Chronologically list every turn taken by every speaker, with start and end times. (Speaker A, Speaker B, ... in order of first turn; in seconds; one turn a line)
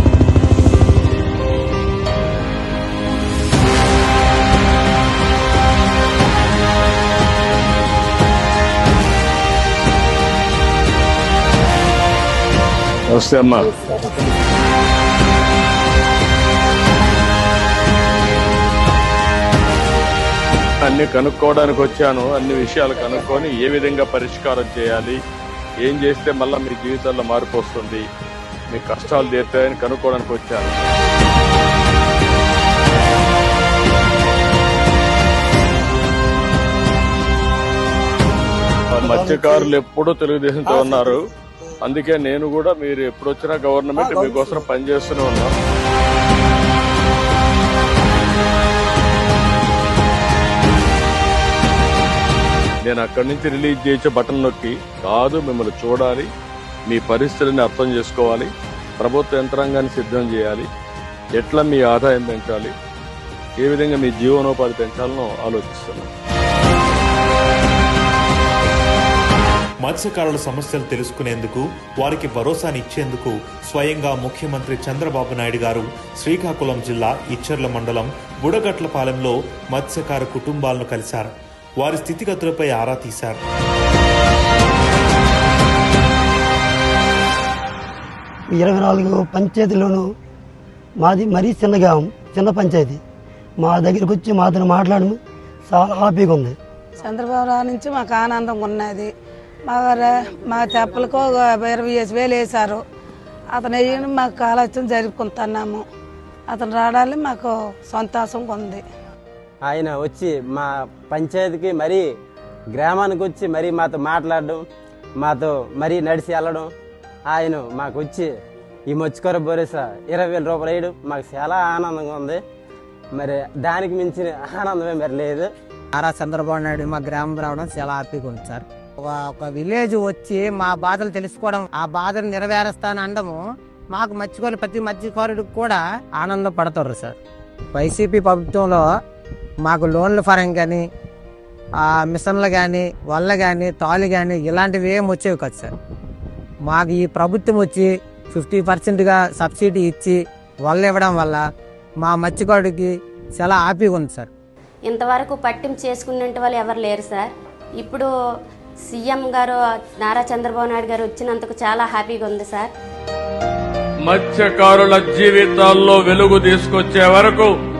Speaker A: 13.1-13.7
Speaker A: 20.8-25.2
Speaker A: 25.8-28.0
Speaker A: 28.7-30.8
Speaker A: 38.9-41.2
Speaker B: 39.0-39.6
Speaker A: 41.8-45.5
Speaker A: 52.8-56.3
Speaker A: 56.9-60.7
Speaker A: 61.3-62.7
Speaker A: 63.6-66.1
Speaker C: 69.8-83.4
Speaker B: 88.5-90.1
Speaker B: 91.0-93.0
Speaker B: 93.6-96.6
Speaker D: 97.0-99.1
Speaker D: 99.7-102.8
Speaker D: 103.5-105.8
Speaker D: 106.5-108.8
Speaker E: 109.6-112.0
Speaker E: 112.7-114.6
Speaker E: 115.2-116.7
Speaker E: 117.3-118.3
Speaker E: 118.9-122.4
Speaker E: 123.1-125.5
Speaker F: 125.9-133.4
Speaker F: 133.9-137.2
Speaker F: 137.7-138.8
Speaker F: 139.6-140.8
Speaker F: 141.8-145.7
Speaker F: 146.7-151.4
Speaker F: 152.0-154.3
Speaker G: 154.8-158.1
Speaker G: 158.9-162.7
Speaker A: 164.0-167.5